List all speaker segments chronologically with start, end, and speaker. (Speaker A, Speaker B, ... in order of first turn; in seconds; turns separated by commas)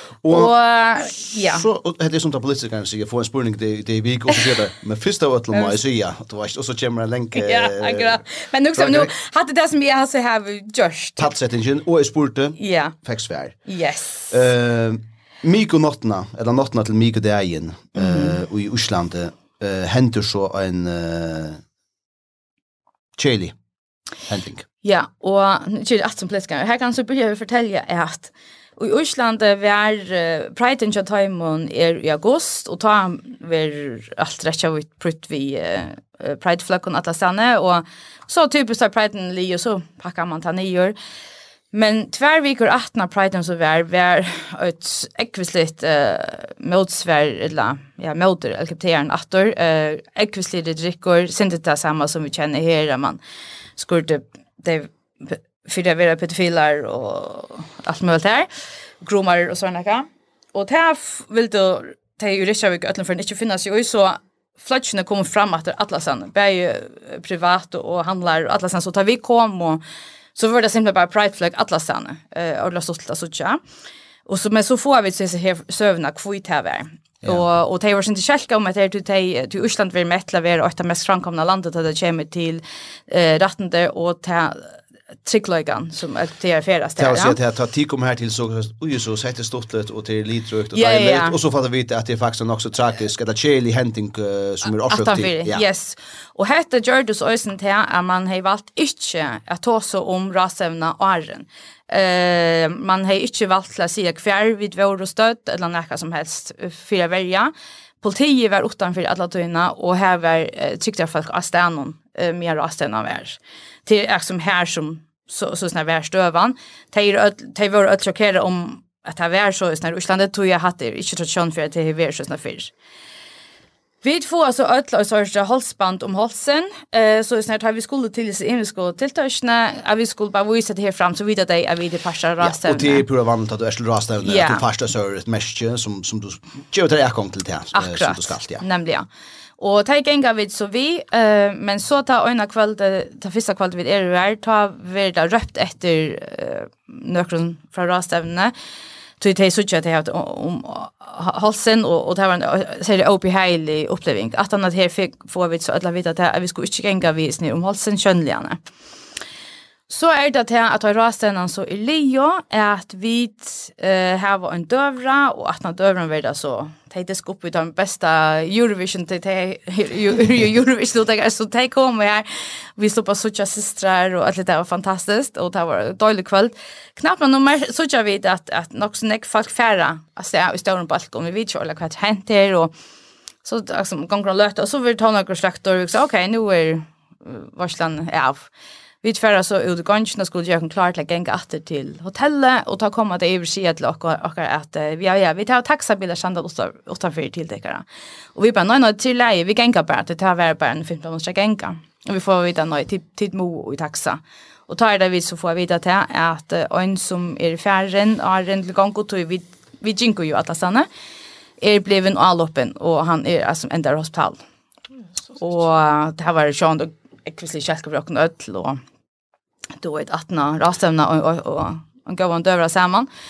Speaker A: 0.2-8.2, Speaker B: 0.3-1.6, Speaker B: 5.5-5.8, Speaker B: 7.3-11.3, Speaker A: 8.7-9.2, Speaker A: 11.2-13.6, Speaker B: 12.6-12.9, Speaker B: 13.7-14.4, Speaker A: 14.3-21.6, Speaker B: 18.0-18.4, Speaker A: 23.2-23.6, Speaker A: 24.3-24.6, Speaker B: 24.8-41.0, Speaker B: 41.7-53.2, Speaker B: 53.8-58.5, Speaker B: 59.0-69.8, Speaker B: 70.3-73.6, Speaker B: 74.3-84.7, Speaker B: 85.2-87.4, Speaker A: 87.0-95.7, Speaker B: 90.7-91.4, Speaker B: 94.9-122.7, Speaker B: 124.0-133.1, Speaker A: 132.4-138.6, Speaker B: 134.3-134.6, Speaker B: 137.7-139.1, Speaker B: 139.6-148.5, Speaker B: 149.2-158.6, Speaker B: 159.9-182.7, Speaker B: 183.4-188.5, Speaker B: 189.0-197.8, Speaker B: 198.3-210.9, Speaker B: 211.6-214.4, Speaker B: 215.4-218.8, Speaker B: 219.8-223.1